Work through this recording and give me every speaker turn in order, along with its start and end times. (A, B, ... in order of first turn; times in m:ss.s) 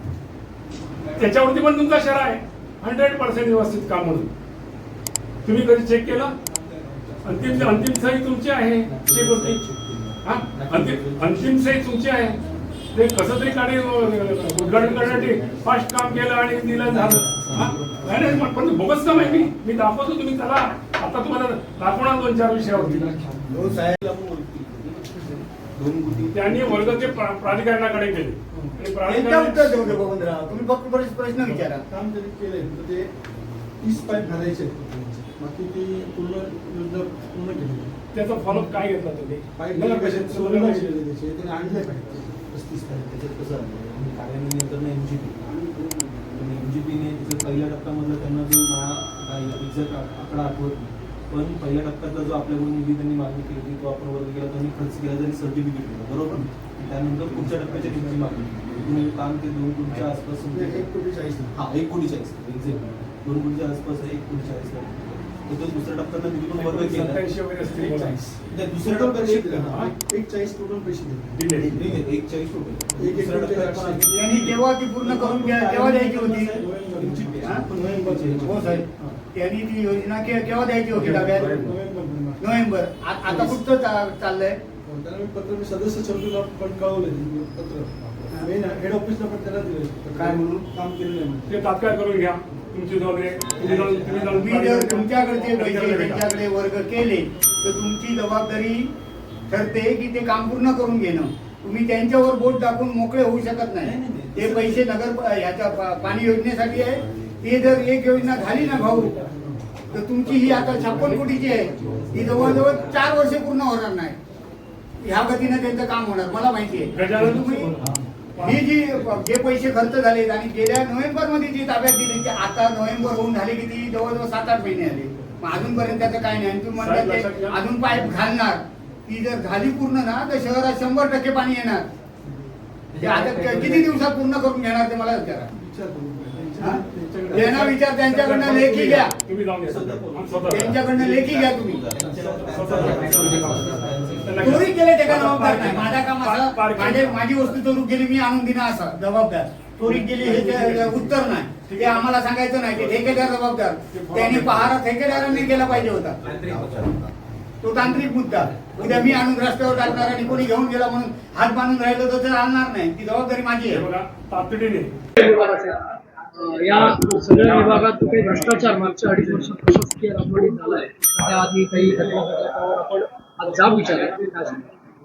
0:01.2-0:04.3 A
0:05.4-0:06.3 A
0:06.4-0:08.0 B
0:07.2-0:09.6 A
0:08.8-0:11.5 B
0:10.2-0:12.4 A
0:12.9-0:23.2 A
0:13.2-0:19.5 B
0:22.6-0:27.6 B
0:23.5-0:23.9 C
0:26.3-0:30.0 A
0:29.0-0:31.8 D
0:31.9-0:33.1 C
0:33.8-0:38.8 C
0:38.1-0:40.9 A
0:39.5-0:43.2 C
0:41.4-0:41.8 B
0:42.9-1:00.9 B
0:57.2-0:59.0 C
0:59.9-1:01.5 C
1:01.5-1:07.2 B
1:06.6-1:08.2 A
1:07.6-1:12.0 C
1:08.5-1:09.9 B
1:09.3-1:09.8 A
1:11.4-1:11.8 A
1:11.6-1:14.4 B
1:13.0-1:19.2 C
1:14.2-1:16.6 D
1:15.2-1:15.6 B
1:16.5-1:18.8 B
1:18.4-1:21.7 D
1:20.9-1:22.6 C
1:22.4-1:24.6 D
1:24.8-1:32.0 C
1:30.2-1:30.6 D
1:31.5-1:36.2 A
1:33.6-1:34.4 B
1:34.4-1:38.9 D
1:39.5-1:49.1 D
1:43.8-1:44.9 B
1:47.3-1:53.1 B
1:48.8-1:49.2 C
1:49.9-1:54.2 D
1:50.6-1:53.0 C
1:50.9-1:51.2 A
1:55.0-1:57.8 D
1:56.9-1:57.8 A
1:57.4-1:58.0 B
1:58.4-1:58.6 A
1:58.4-2:11.8 D
2:06.7-2:07.6 A
2:12.9-2:13.9 B
2:13.0-2:15.5 D
2:15.5-2:17.7 C
2:17.3-2:19.1 D
2:17.4-2:20.8 A
2:19.6-2:24.7 B
2:20.5-2:21.8 D
2:22.0-2:24.1 C
2:22.5-2:27.5 A
2:24.4-2:36.2 D
2:29.9-2:30.8 A
2:30.1-2:30.5 B
2:31.7-2:32.0 A
2:33.9-2:34.8 A
2:37.6-2:43.8 D
2:43.7-2:45.0 A
2:45.2-2:54.7 E